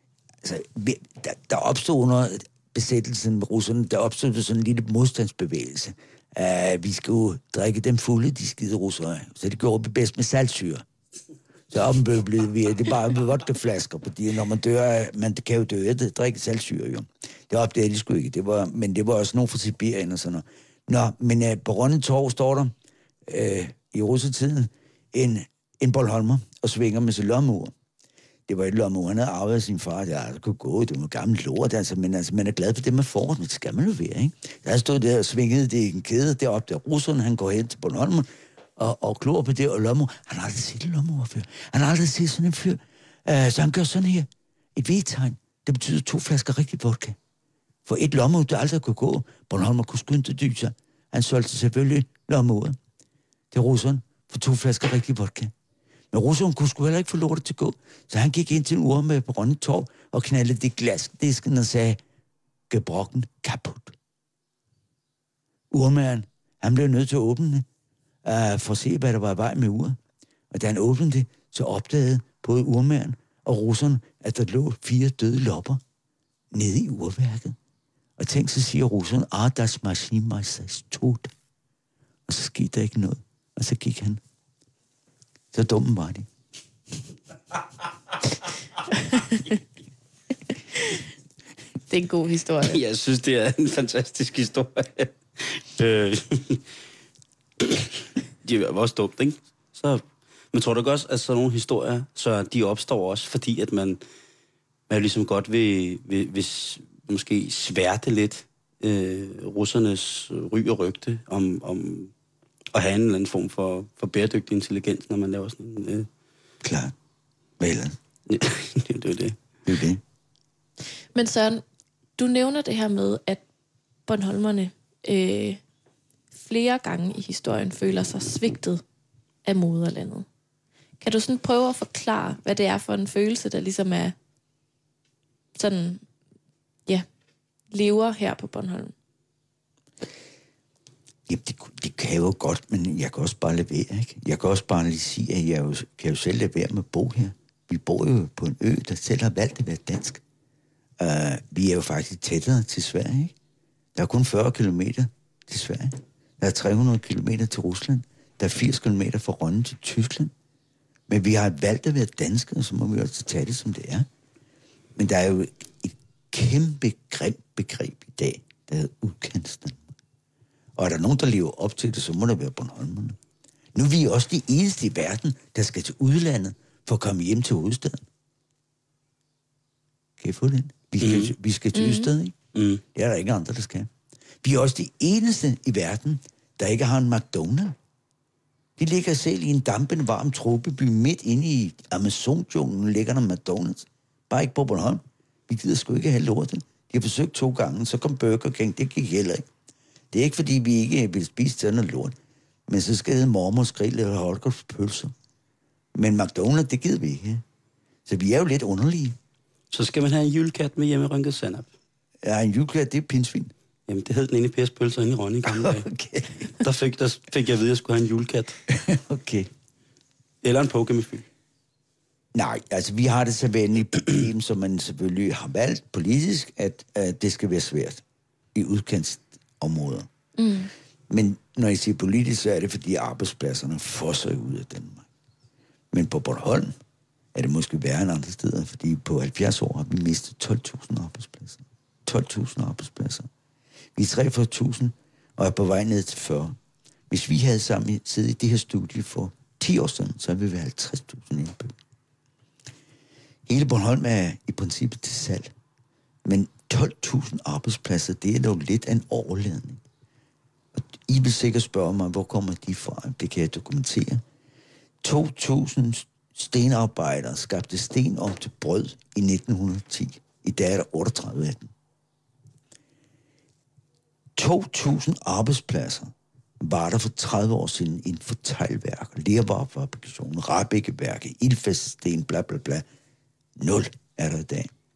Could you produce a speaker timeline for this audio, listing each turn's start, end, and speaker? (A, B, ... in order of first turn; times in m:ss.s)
0:00.4-0:10.8 A
0:11.7-0:22.7 A
0:23.3-0:27.7 A
0:28.5-0:47.2 A
0:47.8-0:52.8 A
0:53.5-0:55.5 A
0:56.1-1:02.0 A
1:02.7-1:04.0 A
1:05.7-1:07.6 A
1:08.2-1:10.0 A
1:10.5-1:15.8 A
1:16.5-1:17.6 A
1:18.2-1:21.3 A
1:22.3-1:24.2 A
1:25.5-1:26.3 A
1:29.1-1:29.4 B
1:31.9-1:32.8 B
1:32.6-1:36.6 C
1:37.6-1:44.0 C
1:44.9-1:52.1 C
1:52.7-1:56.1 C
1:56.6-1:56.9 A
1:57.6-1:58.0 A
1:58.3-1:59.4 C
1:59.6-2:00.0 A
2:01.1-2:01.6 B
2:02.2-2:03.4 B
2:04.1-2:05.6 B
2:06.3-2:08.8 B
2:09.4-2:10.2 B
2:11.0-2:14.1 B
2:15.6-2:16.0 B
2:17.7-2:18.9 B
2:21.3-2:30.2 A
2:31.0-2:33.3 A
2:33.9-2:40.3 A
2:41.1-2:44.1 A
2:45.0-2:49.8 A
2:50.8-2:53.2 A
2:53.7-2:58.0 A
3:00.2-3:02.4 A
3:01.0-3:01.3 C
3:01.7-3:02.1 B
3:02.5-3:02.8 C
3:02.9-3:03.9 A
3:04.4-3:07.8 A
3:08.8-3:19.5 A
3:20.1-3:22.1 A
3:22.7-3:25.1 A
3:25.9-3:27.4 A
3:28.0-3:29.2 A
3:29.7-3:31.7 C
3:32.2-3:33.5 A
3:33.9-3:35.9 C
3:35.4-3:36.6 A
3:36.5-3:38.6 C
3:38.7-3:39.5 A
3:40.4-3:41.2 C
3:42.3-3:48.0 A
3:48.5-3:50.1 A
3:50.4-3:50.7 B
3:51.1-3:55.1 A
3:55.9-3:56.7 A
3:57.3-4:03.3 A
4:04.0-4:06.6 A
4:07.1-4:11.7 A
4:13.5-4:15.5 A
4:16.2-4:19.8 A
4:20.7-4:24.2 A
4:25.0-4:31.7 A
4:34.4-4:42.8 A
4:43.6-4:44.7 A